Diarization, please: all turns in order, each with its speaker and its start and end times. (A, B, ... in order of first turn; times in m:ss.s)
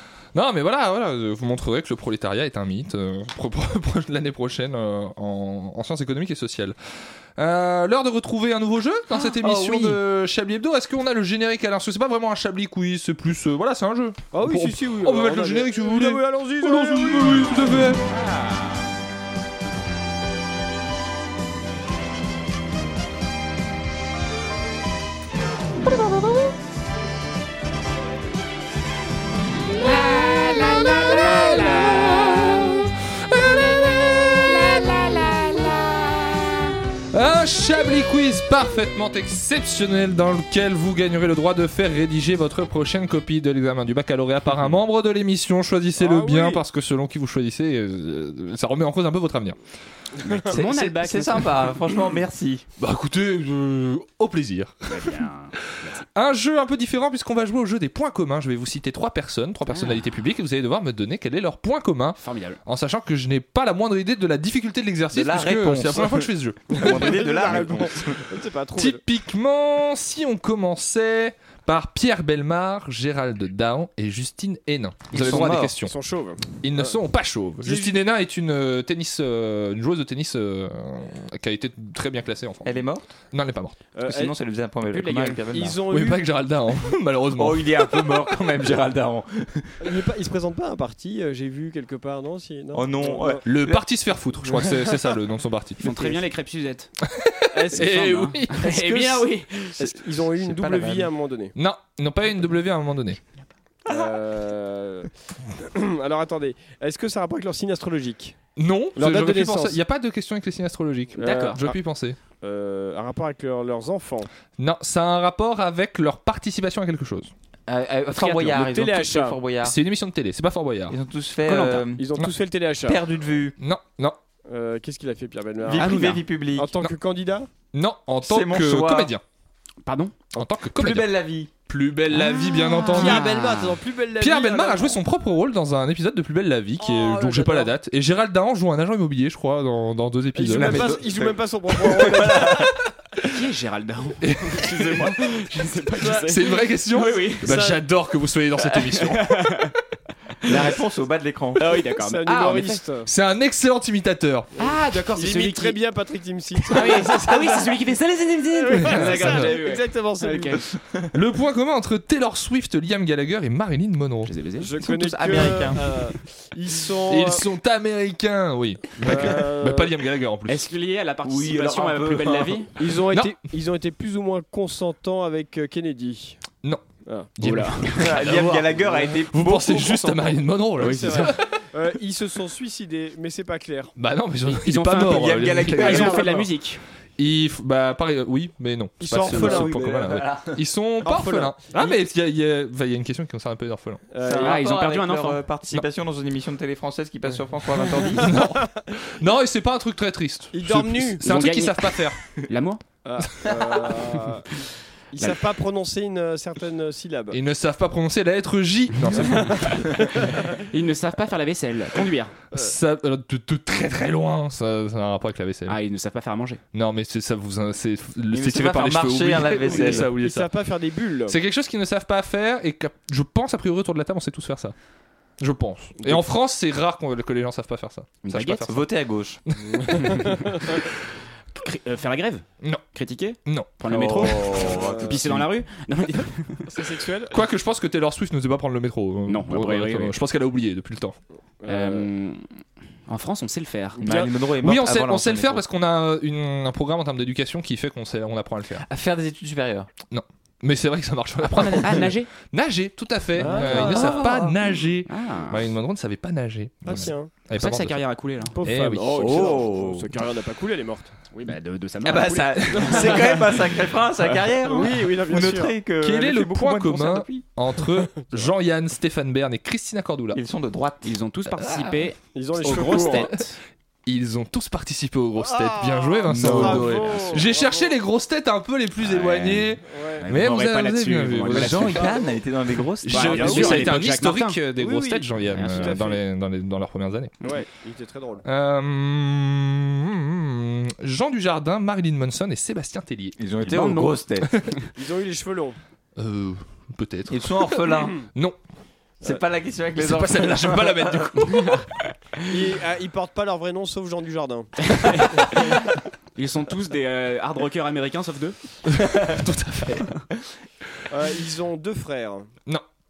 0:00.3-0:06.8 A
0:07.4-0:18.0 A
0:09.1-0:10.0 B
0:14.3-0:17.7 C
0:18.1-0:18.9 B
0:29.8-0:35.9 A
0:30.2-0:32.3 B
0:37.1-0:49.6 A
0:46.0-0:46.6 C
0:50.4-0:51.7 B
0:50.5-0:52.6 D
0:52.8-0:55.2 A
0:54.9-0:56.0 B
0:56.2-1:07.6 A
0:59.7-1:00.1 B
1:02.2-1:02.6 B
1:05.1-1:08.2 D
1:06.7-1:09.0 C
1:08.8-1:16.0 A
1:15.1-1:15.7 D
1:15.2-1:17.0 C
1:16.6-1:22.8 A
1:17.6-1:18.0 C
1:22.6-1:23.1 D
1:23.3-1:23.8 A
1:24.0-1:24.3 C
1:24.0-1:25.8 D
1:24.9-1:25.4 B
1:25.5-1:26.2 C
1:25.9-1:28.2 A
1:27.4-1:29.9 D
1:29.8-1:33.5 C
1:32.7-1:33.8 D
1:33.4-1:35.9 A
1:34.5-1:35.1 C
1:35.8-1:36.9 B
1:37.1-1:39.2 A
1:37.5-1:39.2 C
1:37.7-1:39.9 B
1:39.8-1:41.5 C
1:41.6-1:43.2 A
1:43.9-1:45.1 C
1:45.6-1:48.4 C
1:48.6-1:52.2 A
1:49.0-1:49.8 C
1:51.2-1:51.8 C
1:51.2-1:51.6 B
1:52.4-1:54.3 C
1:54.6-1:57.3 A
1:57.7-1:59.8 D
1:58.2-1:58.6 B
1:58.4-1:59.4 C
1:59.6-2:01.0 A
2:00.9-2:02.0 D
2:01.5-2:01.9 B
2:02.0-2:03.0 C
2:02.8-2:03.6 D
2:03.6-2:04.2 A
2:04.5-2:06.0 C
2:05.7-2:06.7 D
2:05.7-2:06.2 B
2:06.6-2:07.5 C
2:07.7-2:09.2 A
2:08.2-2:09.1 D
2:09.8-2:10.1 B
2:10.3-2:11.1 A
2:10.7-2:11.5 D
2:11.7-2:13.2 A
2:12.1-2:13.8 B
2:12.9-2:15.0 C
2:14.2-2:21.0 A
2:16.8-2:17.7 C
2:20.4-2:22.8 C
2:20.6-2:22.7 D
2:23.2-2:27.5 B
2:24.2-2:24.7 A
2:26.0-2:26.3 C
2:26.3-2:29.4 A
2:27.4-2:27.8 C
2:28.8-2:29.8 B
2:30.4-2:31.7 D
2:31.6-2:32.8 B
2:31.9-2:33.1 C
2:33.1-2:34.5 A
2:34.6-2:37.8 C
2:34.6-2:35.8 B
2:36.7-2:40.7 B
2:38.5-2:40.6 C
2:38.7-2:39.6 A
2:41.1-2:44.3 A
2:44.3-2:44.7 B
2:44.6-2:47.5 C
2:44.8-2:45.8 D
2:47.1-2:50.6 A
2:49.0-2:50.0 C
2:50.5-2:52.8 B
2:51.2-2:52.7 D
2:52.8-2:56.4 C
2:53.1-2:53.4 A
2:57.0-2:57.3 C
2:57.4-3:01.4 A
2:57.4-2:58.1 B
2:58.0-3:00.4 D
2:58.9-2:59.2 C
3:00.8-3:03.9 C
3:00.8-3:01.3 B
3:04.0-3:06.2 A
3:04.5-3:06.8 B
3:05.1-3:06.4 D
3:05.8-3:06.4 C
3:07.2-3:14.0 A
3:09.0-3:09.9 C
3:09.3-3:10.6 D
3:11.0-3:11.9 C
3:14.1-3:14.7 C
3:14.2-3:18.3 D
3:14.4-3:15.4 B
3:18.2-3:22.2 A
3:20.5-3:21.2 C
3:21.2-3:22.8 B
3:23.0-3:24.5 C
3:25.1-3:27.4 C
3:27.3-3:29.8 A
3:29.4-3:30.5 C
3:30.6-3:32.4 B
3:32.5-3:35.8 A
3:35.7-3:36.6 B
3:36.7-3:40.5 A
3:38.3-3:40.1 D
3:39.5-3:41.4 C
3:41.3-3:44.7 A
3:45.4-3:48.9 A
3:48.2-3:48.7 B
3:48.6-3:49.4 D
3:49.5-3:50.9 A
3:49.7-3:50.7 C
3:51.6-3:56.7 B
3:53.4-3:53.7 A
3:53.9-3:55.5 D
3:54.7-3:55.2 C
3:56.7-3:57.4 C
3:57.3-4:01.2 A
3:59.3-4:00.2 B
4:01.6-4:02.1 C
4:01.7-4:02.4 B
4:03.1-4:04.3 B
4:04.0-4:04.3 C
4:04.0-4:05.6 D
4:04.6-4:08.9 A
4:08.8-4:09.9 D
4:10.1-4:18.1 A
4:11.5-4:12.1 D
4:11.8-4:12.3 B
4:13.4-4:14.3 C
4:13.5-4:14.7 D
4:13.6-4:14.0 B
4:15.1-4:15.7 B
4:16.8-4:17.3 C
4:17.5-4:18.6 B
4:18.5-4:21.2 C
4:18.6-4:19.4 A
4:19.1-4:20.1 D
4:21.3-4:23.5 B
4:22.0-4:27.5 D
4:22.7-4:23.3 C
4:24.6-4:25.8 C
4:26.0-4:30.4 A
4:30.3-4:31.9 D
4:31.0-4:33.6 B
4:32.3-4:33.3 C
4:32.8-4:33.0 D
4:34.1-4:42.0 A
4:35.4-4:38.0 C
4:36.3-4:37.4 D
4:39.0-4:42.1 B
4:39.9-4:40.3 C
4:41.5-4:44.0 D
4:41.9-4:42.3 C
4:43.0-4:47.4 A
4:43.1-4:44.6 B
4:43.4-4:43.8 C
4:44.7-4:46.2 C
4:45.5-4:46.0 B
4:47.4-4:48.4 C
4:48.4-4:53.4 A
4:53.4-4:54.5 D
4:53.6-4:54.2 B
4:55.0-4:55.8 C
4:56.2-4:58.6 A
4:57.3-4:58.2 D
4:59.2-5:01.7 D
5:00.0-5:01.8 A
5:02.5-5:04.8 C
5:04.9-5:05.8 B
5:06.4-5:08.6 B
5:08.9-5:10.1 A
5:11.1-5:12.5 C